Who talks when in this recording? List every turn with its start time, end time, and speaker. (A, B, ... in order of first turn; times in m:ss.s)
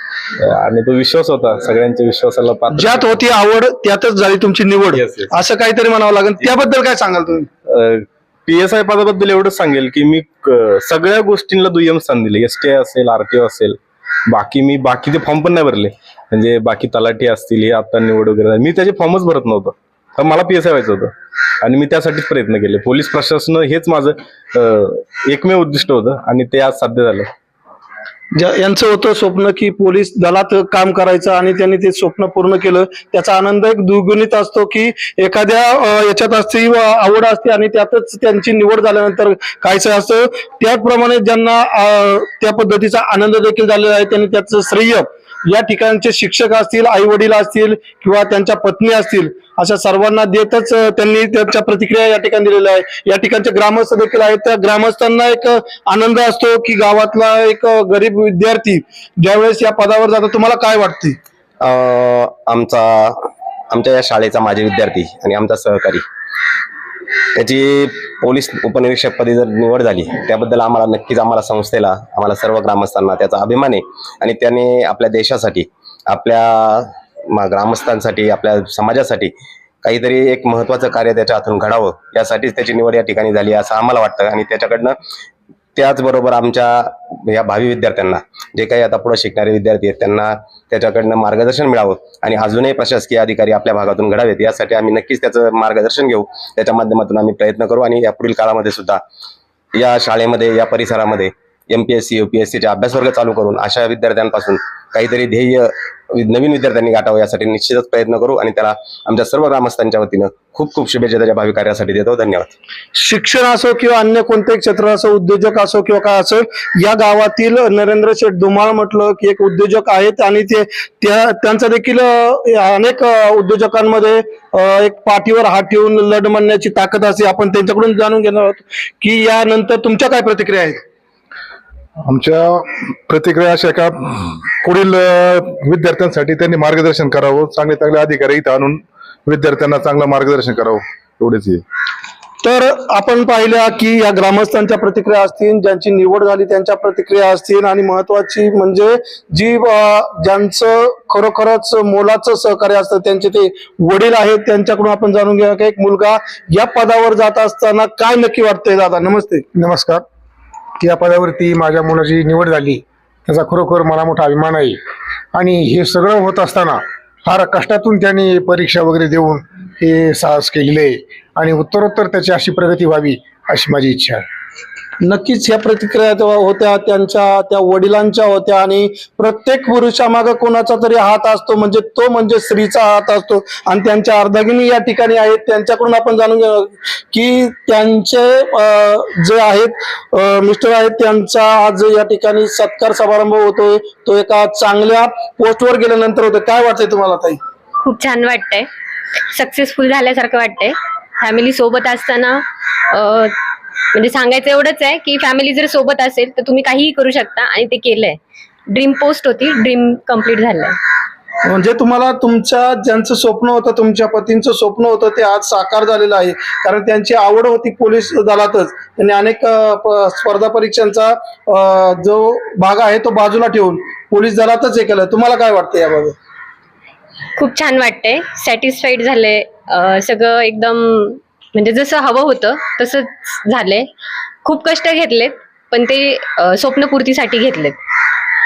0:00.4-0:03.2 A
0:02.7-0:07.5 B
0:07.7-0:27.3 A
0:28.4-1:01.2 B
1:01.6-1:03.2 C
1:03.7-1:06.0 C
1:07.3-1:19.3 C
1:19.8-1:25.0 C
1:25.8-1:39.0 C
1:39.7-1:52.5 C
1:52.9-2:10.8 B
2:12.0-2:21.6 D
2:22.4-2:39.4 B
2:39.5-2:40.0 E
2:40.8-2:44.8 E
2:45.3-2:54.2 E
2:55.0-3:17.4 B
3:17.8-3:18.7 F
3:19.3-3:23.3 F
3:23.9-3:28.2 F
3:28.7-3:30.8 F
3:31.4-3:46.1 B
3:47.4-3:53.9 F
3:54.4-3:57.8 F